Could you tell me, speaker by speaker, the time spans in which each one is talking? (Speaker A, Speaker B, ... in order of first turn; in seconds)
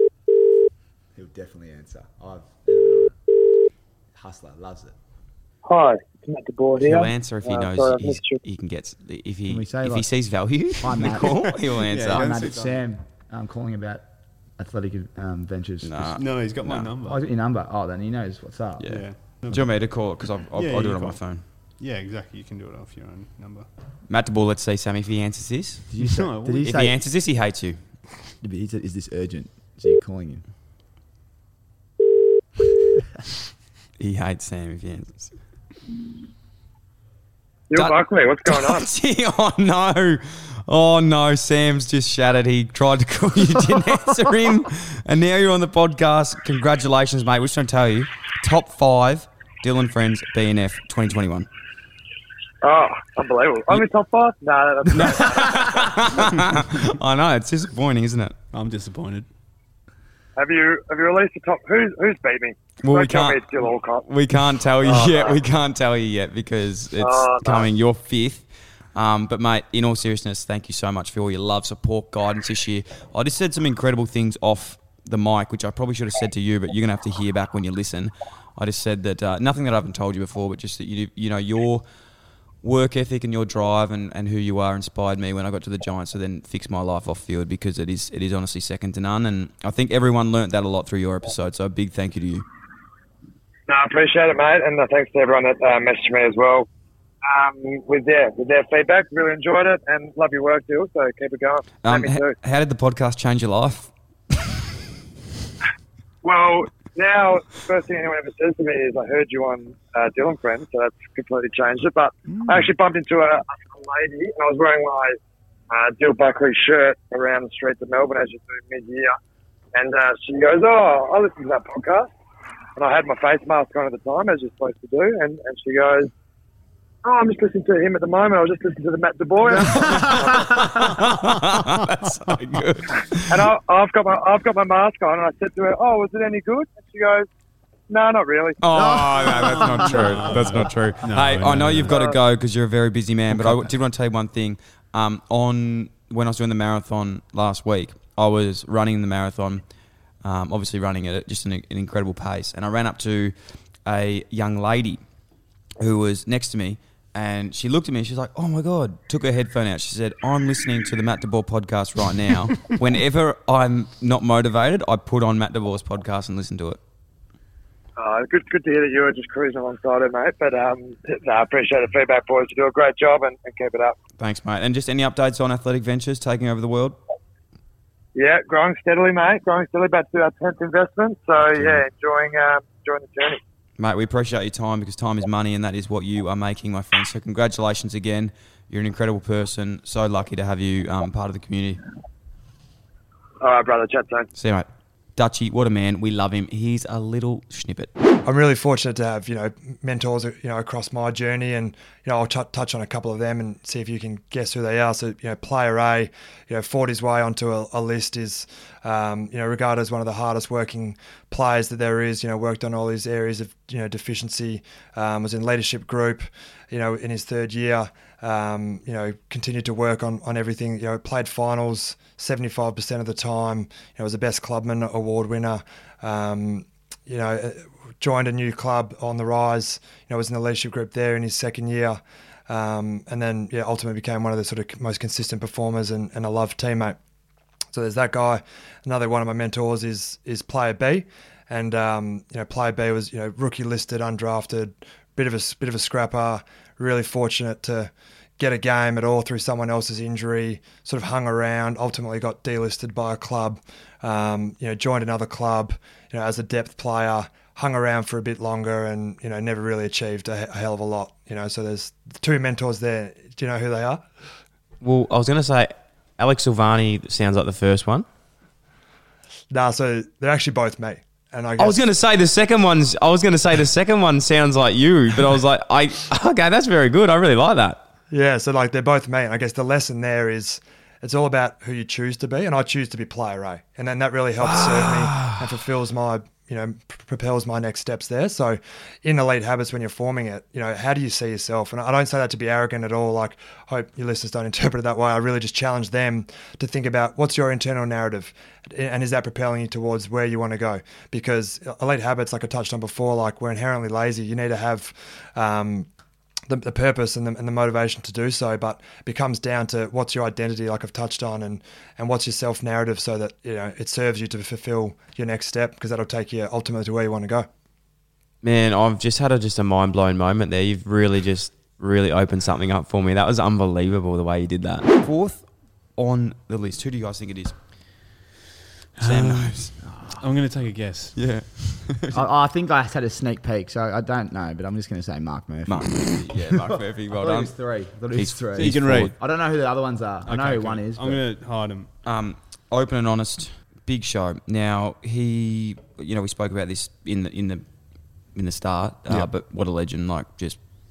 Speaker A: 1.1-3.1, 4.1-4.9, 9.5-10.1, 10.8-14.1, 14.6-16.1, 17.0-19.0, 25.9-27.0, 28.4-30.4, 129.6-130.7, 138.7-140.4, 329.9-330.2, 332.1-341.2
Speaker B: 5.6-8.4, 37.7-38.9, 52.6-56.2, 60.4-64.1, 64.8-65.4, 67.0-67.7, 93.7-96.7, 97.2-102.3, 106.2-115.2, 115.7-119.1, 119.7-122.1, 122.8-126.1, 127.0-130.6, 133.3-137.3, 137.9-138.6, 141.9-142.2, 168.0-174.0, 178.1-183.4, 193.4-194.3
Speaker C: 6.8-12.3, 15.8-16.9, 18.8-21.4, 24.1-25.9, 26.5-27.8, 34.0-35.3, 37.7-51.5, 54.9-58.3, 62.8-63.4, 64.0-81.8, 82.6-92.5, 101.8-103.9, 129.7-133.4, 138.6-149.6, 150.2-155.0, 155.8-166.8, 174.2-177.0, 183.8-191.8, 194.3-197.9, 264.8-268.1, 271.6-277.8, 284.4-285.4, 318.4-327.5, 329.0-329.7, 331.1-332.2, 335.7-337.5, 338.1-339.1, 342.0-347.6, 348.3-350.6
Speaker D: 11.0-12.8, 16.1-17.2, 18.9-19.9, 20.5-23.6, 26.0-26.6, 58.5-59.2, 139.7-141.9, 143.3-143.7, 329.0-331.3, 338.5-339.1, 340.2-341.9
Speaker E: 198.2-237.0, 237.7-264.0, 269.5-271.9, 278.1-305.9, 306.5-317.5